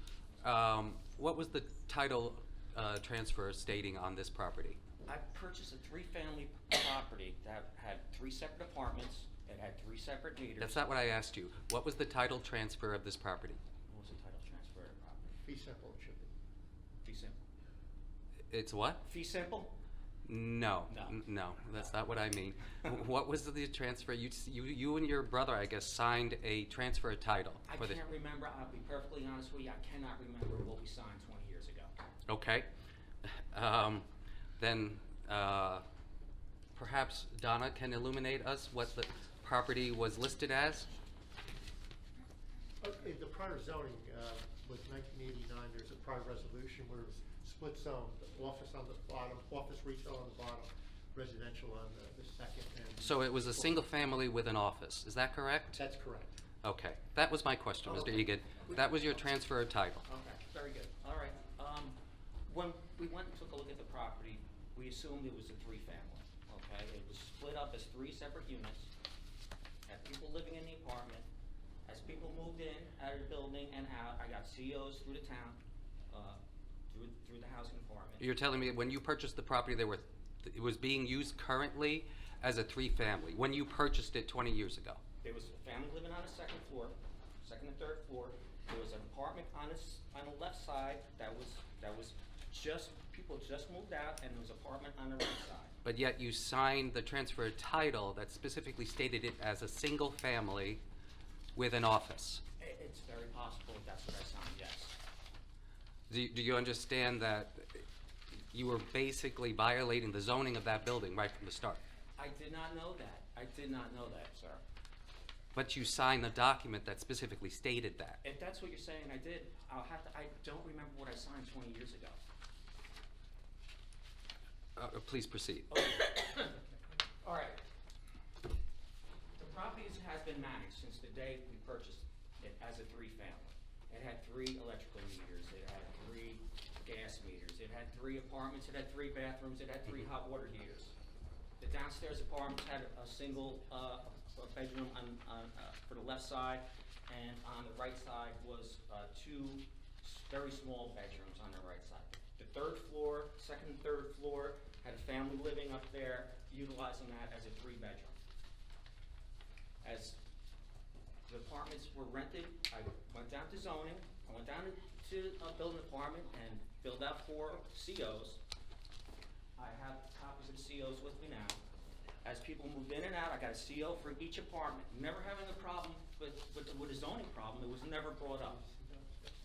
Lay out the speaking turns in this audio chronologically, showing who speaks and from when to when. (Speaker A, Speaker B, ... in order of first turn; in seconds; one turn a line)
Speaker A: 0.4-4.8
Speaker B: 5.0-11.1
Speaker A: 10.6-13.6
Speaker B: 13.9-15.4
Speaker C: 15.4-16.3
Speaker B: 17.0-17.4
Speaker A: 18.5-19.0
Speaker B: 19.0-19.7
Speaker A: 20.2-28.0
Speaker B: 20.9-21.2
Speaker B: 27.7-31.9
Speaker A: 32.3-32.7
Speaker A: 33.2-34.1
Speaker A: 34.6-35.8
Speaker A: 36.8-40.9
Speaker C: 42.8-53.8
Speaker A: 53.0-55.8
Speaker C: 55.8-56.4
Speaker A: 56.6-60.0
Speaker C: 57.9-59.0
Speaker B: 60.1-68.9
Speaker B: 69.9-71.3
Speaker B: 71.9-78.3
Speaker A: 78.2-85.0
Speaker B: 85.2-95.8
Speaker A: 95.8-100.8
Speaker A: 101.5-102.4
Speaker B: 102.6-105.0
Speaker A: 106.1-107.8
Speaker A: 108.5-111.8
Speaker B: 112.2-114.6
Speaker A: 115.5-118.2
Speaker B: 118.2-122.2
Speaker A: 124.8-125.7
Speaker B: 125.7-126.6
Speaker B: 127.2-127.6
Speaker B: 129.4-140.9
Speaker B: 141.6-158.2
Speaker B: 159.8-160.2
Speaker B: 161.3-168.4
Speaker B: 169.6-171.6
Speaker B: 172.2-178.6
Speaker C: 178.4-179.4